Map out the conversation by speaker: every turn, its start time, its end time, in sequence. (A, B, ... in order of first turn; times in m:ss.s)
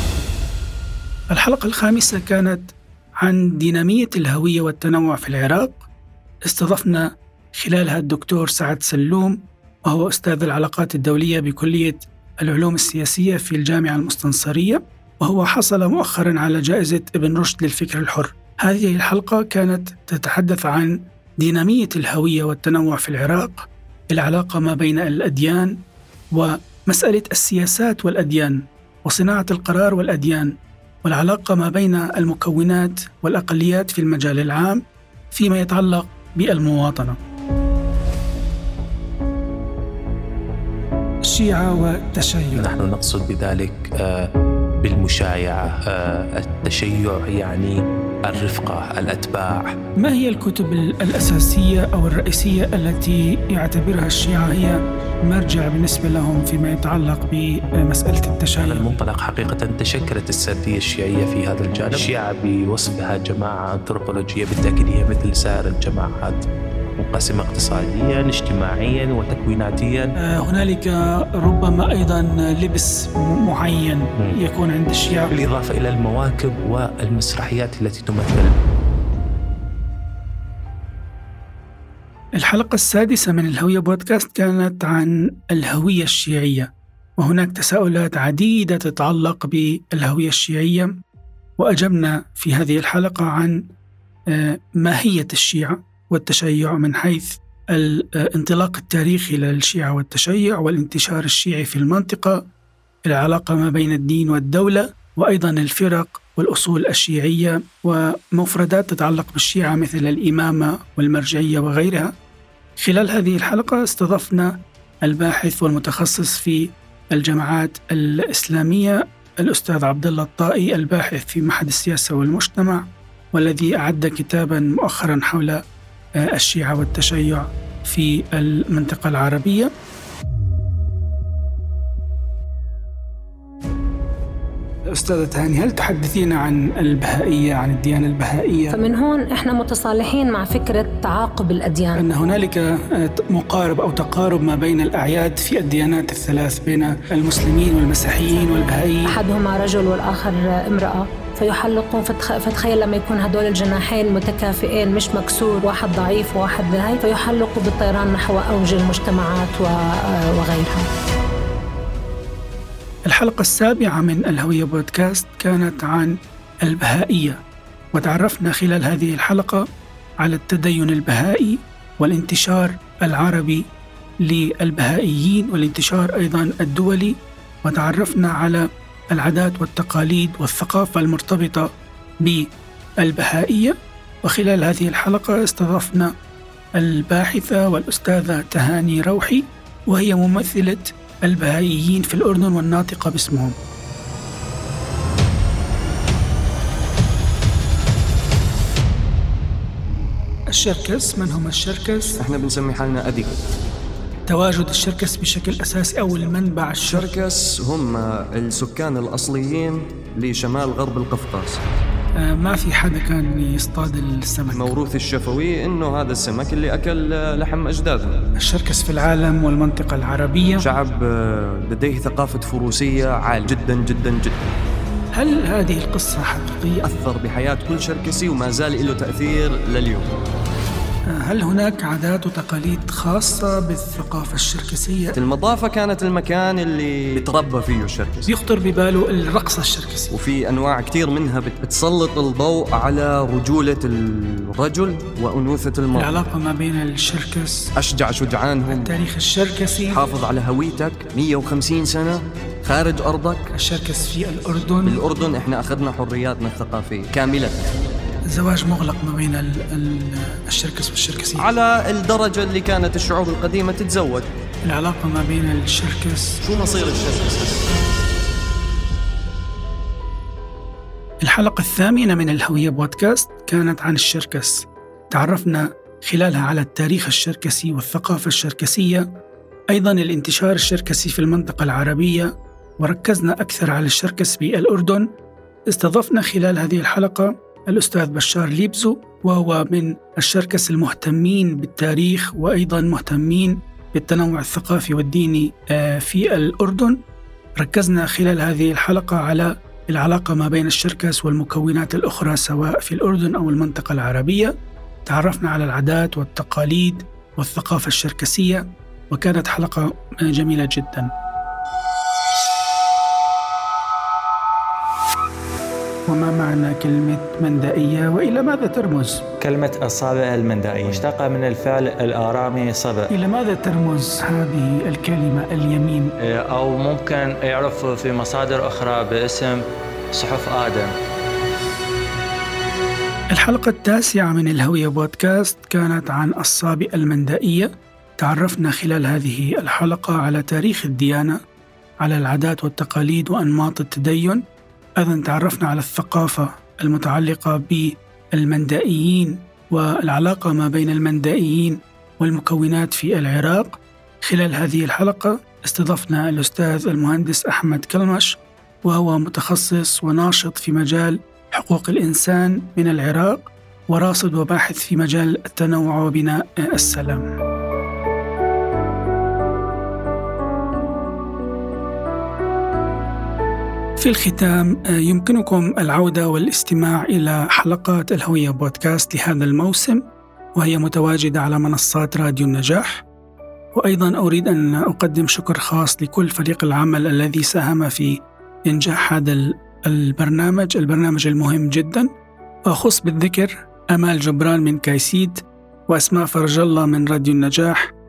0:01.3-0:05.9 A
0:06.4-0:25.8 A
0:26.4-0:30.5 A
0:31.0-0:37.2 A
0:41.3-0:42.7 A
0:42.5-0:44.3 B
0:44.8-0:49.8 B
0:50.0-0:59.0 A
0:58.6-1:06.4 B
1:07.0-1:10.1 B
1:10.2-1:15.4 A
1:15.3-1:18.6 B
1:22.4-1:30.9 A
1:31.6-1:33.6 A
1:34.3-1:42.4 A
1:43.1-1:52.1 A
1:52.8-1:54.5 A
1:55.0-2:05.6 A
2:06.2-2:09.7 A
2:14.9-2:18.8 A
2:18.7-2:22.0 C
2:22.0-2:29.2 A
2:29.1-2:39.8 C
2:40.3-2:40.9 C
2:43.1-2:47.4 A
2:47.9-2:49.6 A
2:50.2-2:53.6 A
2:54.2-3:01.7 A
3:03.0-3:06.1 A
3:06.8-3:13.6 A
3:20.5-3:22.2 A
3:22.2-3:23.3 D
3:24.3-3:27.2 A
3:26.9-3:31.6 D
3:32.2-3:34.8 A
3:34.5-3:38.1 D
3:38.4-3:40.7 A
3:40.6-3:44.3 D
3:45.1-3:46.9 A
3:46.8-3:50.1 D
3:51.1-3:55.2 A
3:55.2-3:58.3 D
3:58.3-4:00.1 A
4:00.1-4:06.2 D
4:05.9-4:07.7 A
4:07.8-4:09.0 D
4:08.7-4:10.1 A
4:09.9-4:13.5 D
4:13.5-4:15.0 A
4:14.8-4:17.7 D
4:18.3-4:21.5 A
4:21.4-4:24.3 D
4:24.6-4:26.4 A
4:26.4-4:27.5 D
4:31.2-4:39.1 A
4:39.7-4:45.1 A
4:45.7-4:57.0 A
4:57.6-5:04.5 A
5:05.1-5:11.1 A
5:16.1-5:19.2 A
5:19.4-5:23.1 E
5:23.1-5:26.1 A
5:26.2-5:31.0 E
5:33.3-5:41.4 A
5:42.0-5:44.4 A
5:45.0-6:07.3 A
6:14.0-6:20.0 A
6:20.6-6:23.0 A
6:23.8-6:32.1 A
6:32.7-6:37.9 A